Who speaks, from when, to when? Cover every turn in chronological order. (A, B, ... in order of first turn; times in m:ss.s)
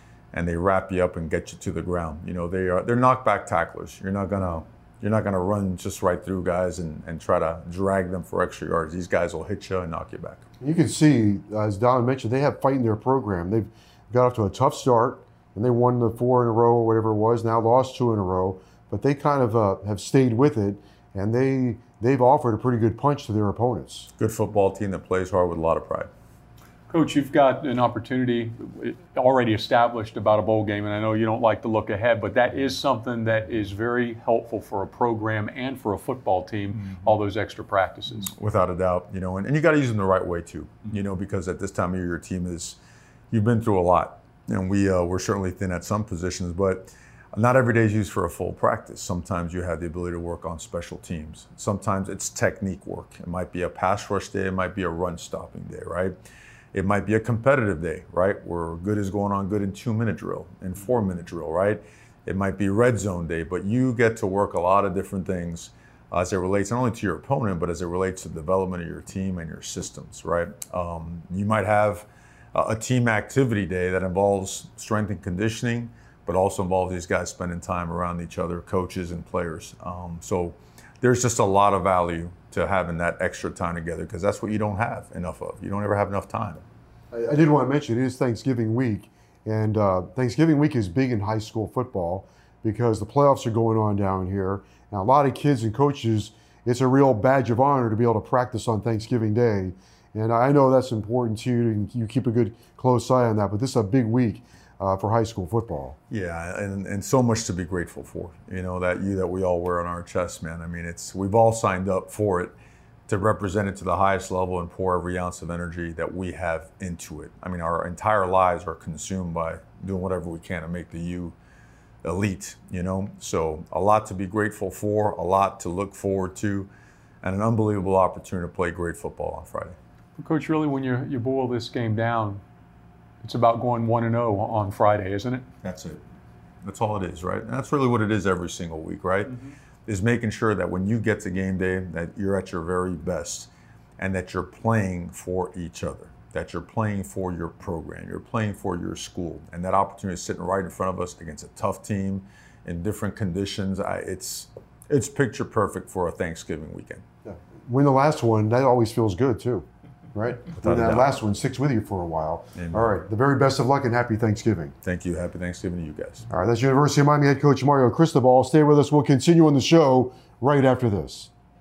0:00.3-0:10.4 A
0:10.6-0:24.1 B
0:24.2-0:26.1 A
0:26.9-0:38.3 C
0:38.3-0:42.8 A
0:43.3-0:56.2 A
0:56.7-1:26.6 A
1:27.1-1:46.0 B
1:46.1-1:52.5 A
1:53.1-2:01.4 A
2:02.0-2:06.7 A
2:07.2-2:09.8 A
2:10.2-2:12.4 C
2:13.2-2:15.5 C
2:15.6-2:16.0 A
2:16.6-2:37.0 A
2:37.2-2:44.7 B
2:40.6-2:41.1 A
2:42.6-2:42.9 A
2:44.8-2:46.2 A
2:46.3-2:51.3 B